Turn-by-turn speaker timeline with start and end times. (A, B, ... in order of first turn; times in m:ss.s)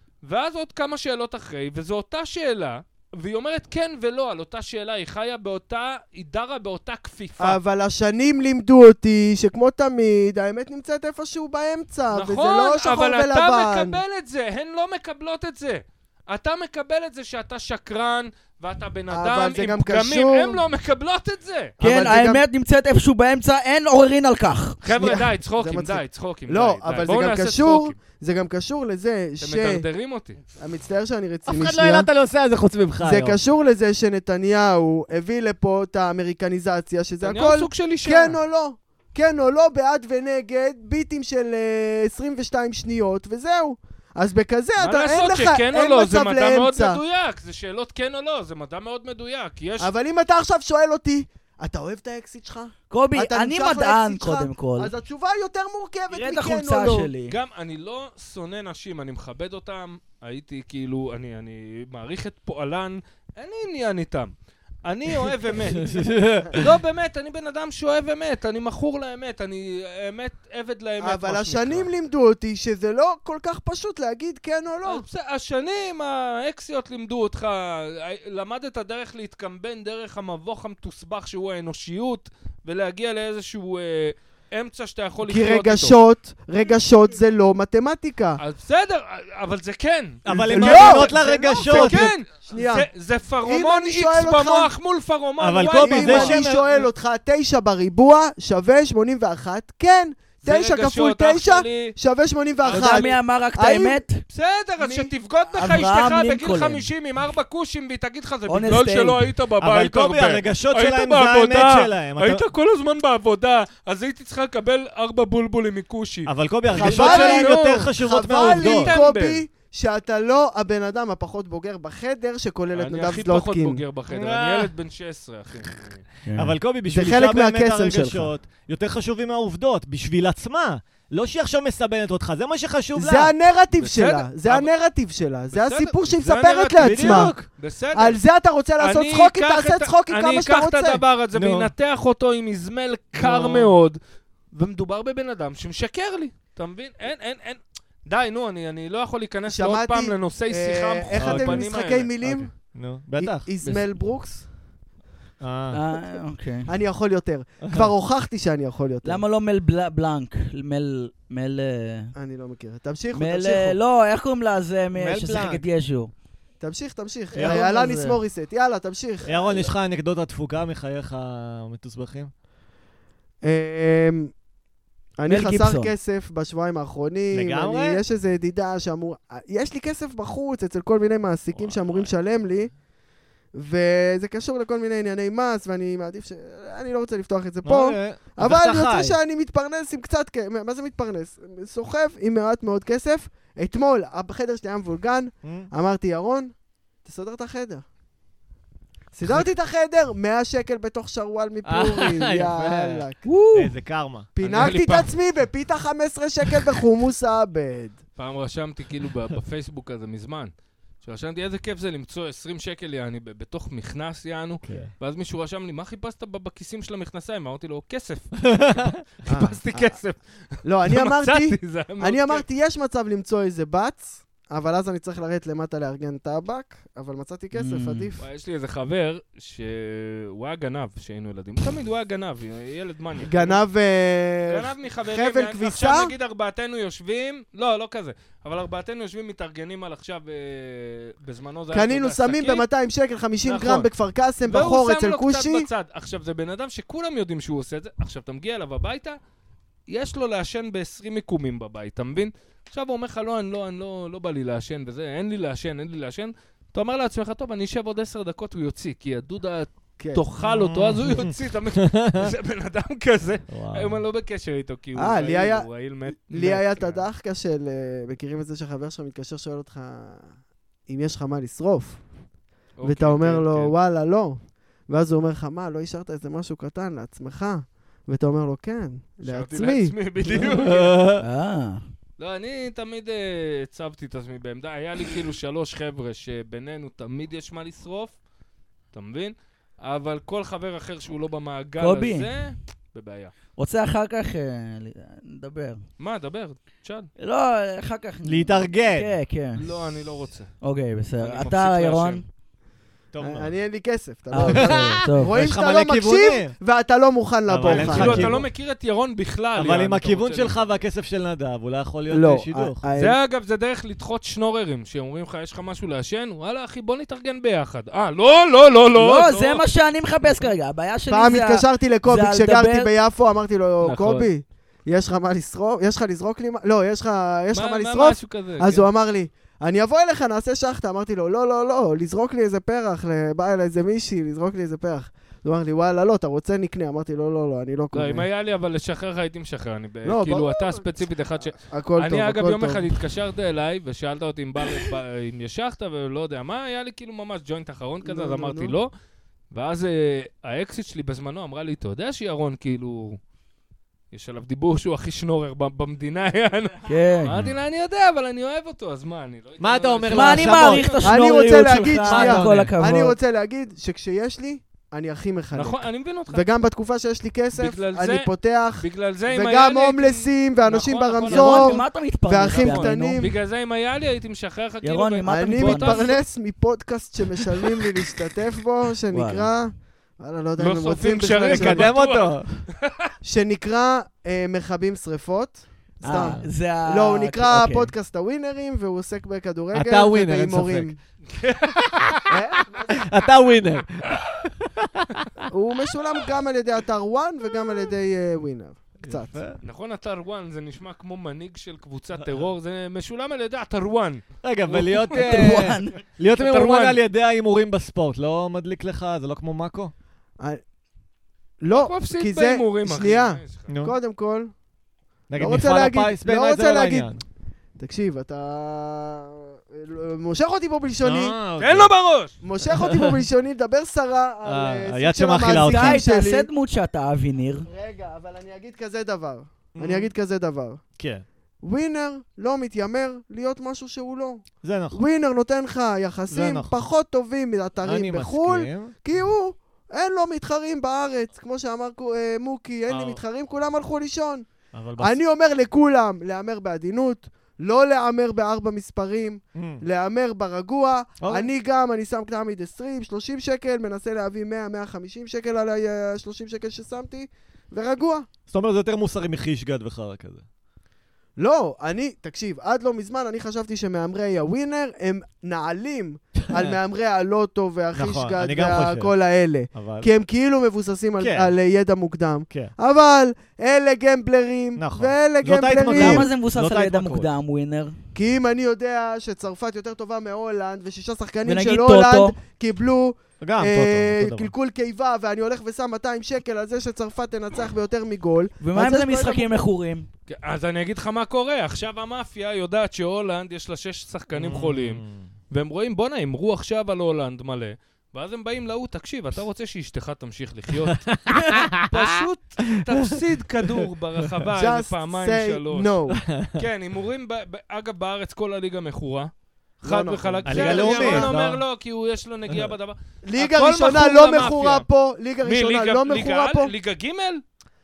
0:00.2-0:07.6 A
0:07.4-0:14.0 B
0:12.1-0:21.7 A
0:19.1-0:20.6 B
0:21.8-0:22.4 B
0:21.8-0:24.8 C
0:24.8-0:28.0 A
0:24.9-0:29.8 B
0:29.4-0:30.4 A
0:30.6-0:32.1 B
0:31.5-0:33.4 D
0:33.0-0:47.0 B
0:37.2-0:38.4 A
0:44.8-0:49.9 A
0:49.8-0:57.1 B
0:52.9-0:54.9 C
0:56.1-0:57.3 C
0:57.3-1:04.3 A
1:04.8-1:11.9 A
1:05.8-1:06.7 D
1:11.0-1:15.0 B
1:14.8-1:26.0 A
1:25.2-1:28.4 B
1:28.4-1:36.5 A
1:30.2-1:32.1 D
1:30.3-1:32.9 B
1:33.4-1:34.7 B
1:35.4-1:36.8 D
1:35.8-1:44.0 B
1:40.4-1:41.9 A
1:42.6-1:43.2 A
1:42.7-1:44.2 C
1:44.3-1:59.4 A
1:44.8-1:45.1 B
1:45.5-1:46.9 C
1:48.5-1:49.2 C
1:49.6-1:52.4 D
1:56.2-1:59.0 D
1:56.7-2:03.8 B
2:02.7-2:06.0 A
2:04.1-2:04.7 D
2:06.2-2:06.6 C
2:06.3-2:13.3 D
2:06.9-2:08.3 B
2:12.9-2:17.3 B
2:13.7-2:14.7 A
2:15.5-2:18.2 A
2:16.8-2:17.4 D
2:17.9-2:21.0 B
2:18.8-2:24.0 A
2:21.3-2:21.7 D
2:23.2-2:23.7 B
2:24.5-2:32.1 A
2:29.5-2:32.5 B
2:31.1-2:33.5 D
2:33.2-2:34.5 B
2:35.4-2:35.8 D
2:35.7-2:36.7 C
2:36.7-2:39.2 B
2:37.6-2:37.9 D
2:39.0-2:42.1 C
2:42.2-2:43.8 B
2:43.1-2:46.1 C
2:44.9-2:45.6 D
2:46.6-2:49.7 B
2:47.3-2:48.2 C
2:47.3-2:47.6 D
2:49.2-2:52.3 D
2:53.4-2:54.3 B
2:55.2-3:02.7 B
2:55.3-2:55.9 C
2:57.3-2:58.0 D
3:01.5-3:02.1 D
3:03.5-3:16.5 B
3:07.6-3:09.2 D
3:15.4-3:15.7 D
3:17.0-3:17.8 B
3:19.1-3:23.2 B
3:21.6-3:24.3 D
3:23.2-3:23.7 C
3:24.3-3:28.0 B
3:24.4-3:25.1 A
3:28.2-3:40.2 A
3:34.6-3:34.9 D
3:38.5-3:39.0 D
3:39.3-3:40.0 B
3:40.6-3:48.2 B
3:40.8-3:42.4 A
3:47.5-3:48.1 C
3:48.2-3:53.6 A
3:53.2-3:56.1 B
3:54.4-4:02.6 A
4:01.7-4:05.7 B
4:03.4-4:03.9 A
4:04.4-4:09.2 A
4:09.9-4:27.0 A
4:20.4-4:22.3 D
4:23.5-4:24.0 D
4:24.9-4:25.7 B
4:26.2-4:30.3 B
4:30.9-4:32.0 B
4:32.8-4:33.7 A
4:32.8-4:40.6 B
4:39.2-4:41.0 A
4:40.3-4:41.2 D
4:41.2-4:41.8 C
4:42.2-4:48.2 A
4:48.9-4:53.3 A
4:51.8-4:52.3 C
4:53.6-4:55.8 C
4:56.0-4:57.1 A
4:57.2-4:59.6 C
4:58.2-4:59.1 D
4:59.6-5:00.5 A
5:00.6-5:02.2 C
5:01.2-5:02.2 A
5:03.1-5:03.5 D
5:03.2-5:08.4 B
5:04.3-5:05.3 C
5:04.4-5:06.5 D
5:07.5-5:08.4 D
5:07.6-5:10.7 A
5:09.5-5:12.8 D
5:12.1-5:13.2 B
5:12.9-5:19.6 A
5:19.0-5:22.9 C
5:21.1-5:38.2 B
5:23.8-5:24.2 A
5:27.5-5:28.8 A
5:37.9-5:48.9 A
5:40.0-5:40.9 B
5:41.5-5:42.9 B
5:48.0-5:48.8 B
5:49.5-5:53.2 A
5:54.1-6:01.1 A
5:56.9-5:57.4 C
5:59.6-6:01.0 D
6:00.1-6:03.2 C
6:01.0-6:13.4 B
6:01.8-6:02.7 D
6:05.5-6:06.4 A
6:07.5-6:11.8 A
6:11.3-6:13.3 C
6:12.5-6:16.2 A
6:14.8-6:16.1 C
6:15.3-6:21.9 B
6:19.1-6:19.5 C
6:20.6-6:23.1 A
6:21.4-6:22.6 D
6:23.2-6:31.0 B
6:26.0-6:27.9 C
6:26.1-6:26.5 D
6:29.7-6:30.9 D
6:31.3-6:32.2 A
6:32.3-6:33.0 B
6:32.9-6:35.2 D
6:35.5-6:39.4 B
6:39.0-6:39.6 D
6:39.6-6:45.6 A
6:44.4-6:49.9 D
6:45.1-6:46.0 C
6:46.4-6:47.0 A
6:51.6-6:54.5 B
6:51.7-6:53.7 A
6:53.7-6:54.0 D
6:55.3-6:57.2 D
6:55.4-6:57.1 B
6:57.8-7:01.4 B
7:01.0-7:01.9 D
7:01.6-7:02.3 A
7:02.4-7:06.5 B
7:02.7-7:03.2 D
7:04.4-7:06.0 D
7:05.5-7:07.7 C
7:07.7-7:10.8 B
7:09.7-7:10.1 D
7:11.0-7:11.2 D
7:11.6-7:24.5 B
7:14.6-7:15.0 D
7:16.3-7:16.7 D
7:17.8-7:18.9 D
7:22.9-7:23.2 D
7:24.7-7:25.2 D
7:25.0-7:38.3 B
7:29.5-7:29.8 D
7:31.2-7:31.5 D
7:38.5-7:40.4 D
7:41.4-7:56.3 B
7:47.9-7:49.1 D
7:49.7-7:50.1 D
7:51.2-7:51.5 D
7:54.8-7:57.3 D
7:55.9-7:58.0 C
7:58.1-8:09.6 B
8:01.4-8:02.4 C
8:03.4-8:04.5 D
8:08.6-8:10.1 C
8:10.3-8:25.9 A
8:14.3-8:15.3 D
8:20.8-8:22.2 D
8:23.0-8:23.9 D
8:24.5-8:26.2 B
8:26.1-8:26.6 D
8:26.6-8:34.8 A
8:29.8-8:31.3 B
8:30.4-8:31.6 D
8:32.5-8:32.7 D
8:33.2-8:36.7 B
8:35.4-8:37.4 A